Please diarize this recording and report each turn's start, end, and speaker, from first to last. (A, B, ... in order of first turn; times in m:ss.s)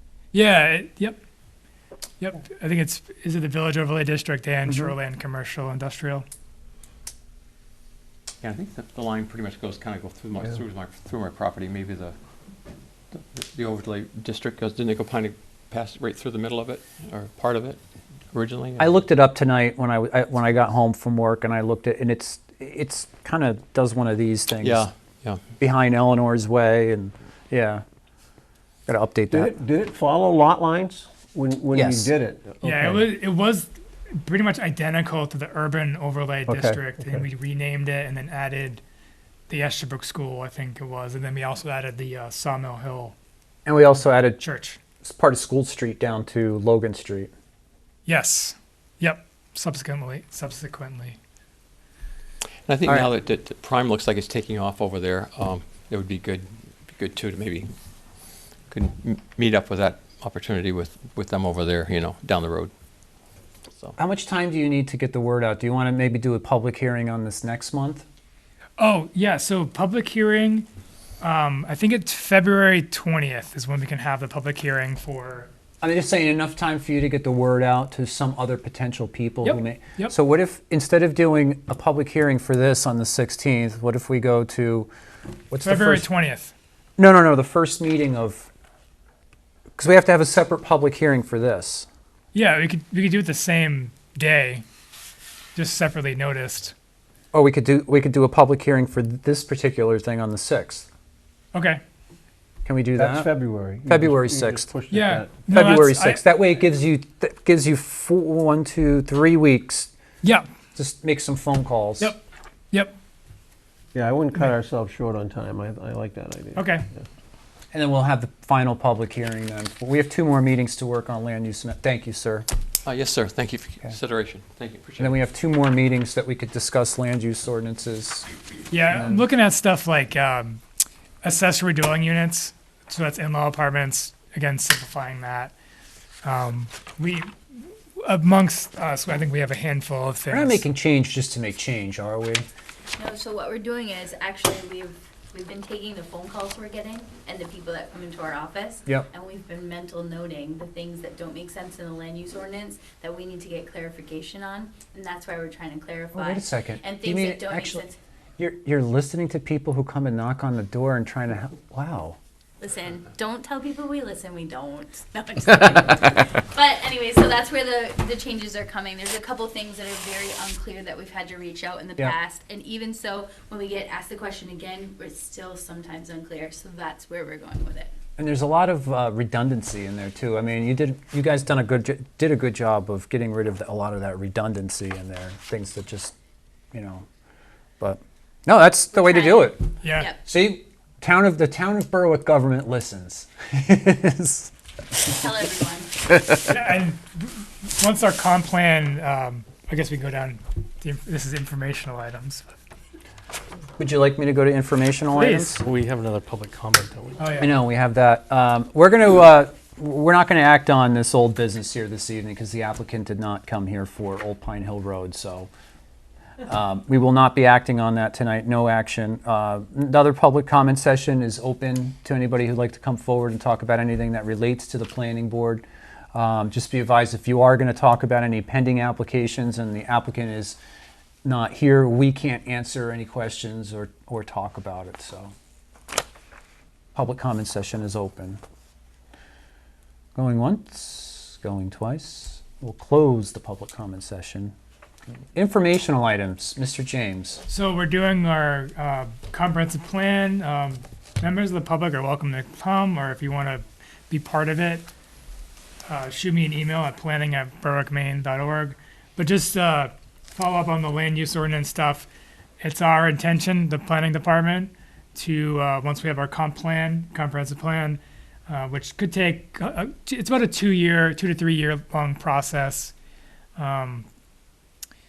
0:00.3-0:01.2 A
0:02.2-0:06.2 A
0:08.4-0:12.1 B
0:13.1-0:17.8 B
0:18.3-0:19.0 B
0:18.8-0:24.9 C
0:24.6-0:25.4 B
0:25.6-0:27.8 C
0:28.9-0:29.5 C
0:29.3-0:33.1 D
0:31.7-0:32.1 C
0:32.6-0:38.8 A
0:36.5-0:37.2 D
0:39.5-0:43.1 A
0:43.6-0:44.4 C
0:44.4-0:44.8 A
0:45.0-0:47.3 C
0:48.0-0:51.2 A
0:52.7-0:57.7 B
0:58.7-1:02.7 B
1:04.0-1:08.0 C
1:08.8-1:10.7 A
1:11.2-1:15.5 A
1:15.8-1:24.9 C
1:19.4-1:20.1 A
1:25.5-1:26.0 C
1:25.6-1:26.5 A
1:27.0-1:28.5 C
1:29.8-1:31.9 C
1:32.3-1:34.6 A
1:35.5-1:36.7 A
1:37.3-1:40.9 C
1:41.5-1:41.8 A
1:42.6-1:43.3 C
1:43.0-1:45.3 D
1:43.8-1:44.7 C
1:44.9-1:46.2 A
1:45.5-1:49.9 C
1:50.8-1:52.1 C
1:53.9-1:57.0 D
1:56.6-1:56.8 A
1:57.7-2:02.5 C
2:02.8-2:05.2 B
2:05.0-2:08.3 C
2:08.7-2:10.6 A
2:08.8-2:09.3 C
2:11.2-2:15.5 A
2:16.2-2:17.3 A
2:18.0-2:20.6 A
2:20.3-2:22.4 C
2:23.0-2:38.0 E
2:36.1-2:37.8 C
2:38.4-2:42.2 C
2:42.6-2:57.9 E
2:58.2-3:06.1 C
3:06.7-3:07.0 C
3:07.8-3:14.5 C
3:08.9-3:10.2 E
3:09.8-3:10.1 A
3:15.1-3:16.0 E
3:16.4-3:22.5 A
3:23.8-3:25.6 C
3:25.1-3:27.3 F
3:27.2-3:27.6 A
3:27.4-3:35.5 C
3:36.4-3:50.6 C
3:51.2-3:55.3 C
3:56.9-3:58.4 C
4:00.2-4:04.5 C
4:05.3-4:07.4 C
4:07.5-4:14.9 A
4:15.9-4:22.1 A
4:22.6-4:32.9 A
4:33.6-4:34.1 A